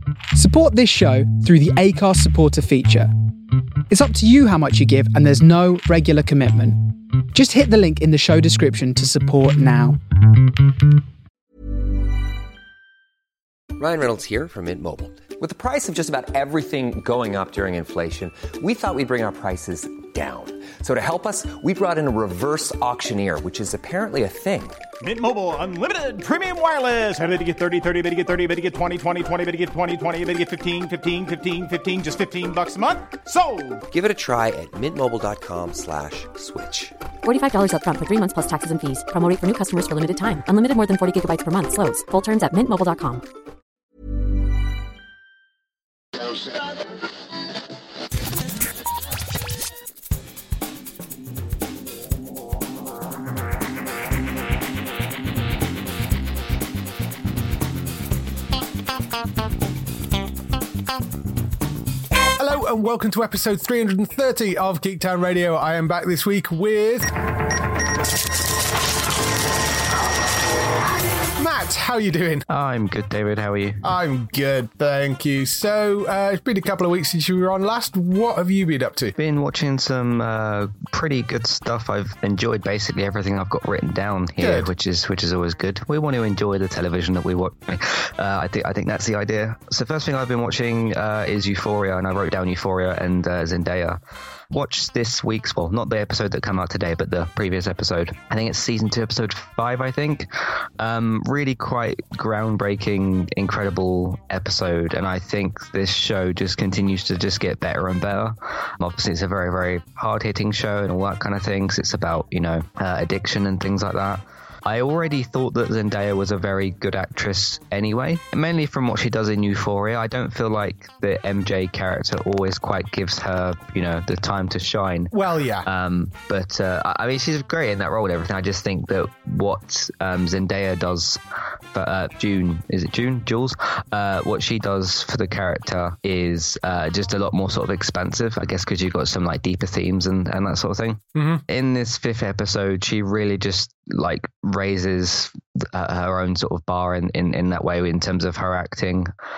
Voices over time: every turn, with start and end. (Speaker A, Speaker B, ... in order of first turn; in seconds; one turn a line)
Speaker A: 0.3-3.1
Speaker A: 3.9-10.0
Speaker B: 13.8-24.8
Speaker C: 25.0-33.8
Speaker B: 33.9-37.0
Speaker D: 37.2-43.2
Speaker E: 62.4-67.3
Speaker E: 71.3-72.5
Speaker F: 72.5-73.8
Speaker E: 73.8-79.2
Speaker F: 79.2-94.0
Speaker E: 84.4-84.7
Speaker F: 94.5-100.3
Speaker F: 100.8-125.1
Speaker E: 125.1-125.7
Speaker F: 125.6-131.2
Speaker F: 131.7-149.1
Speaker E: 141.2-141.4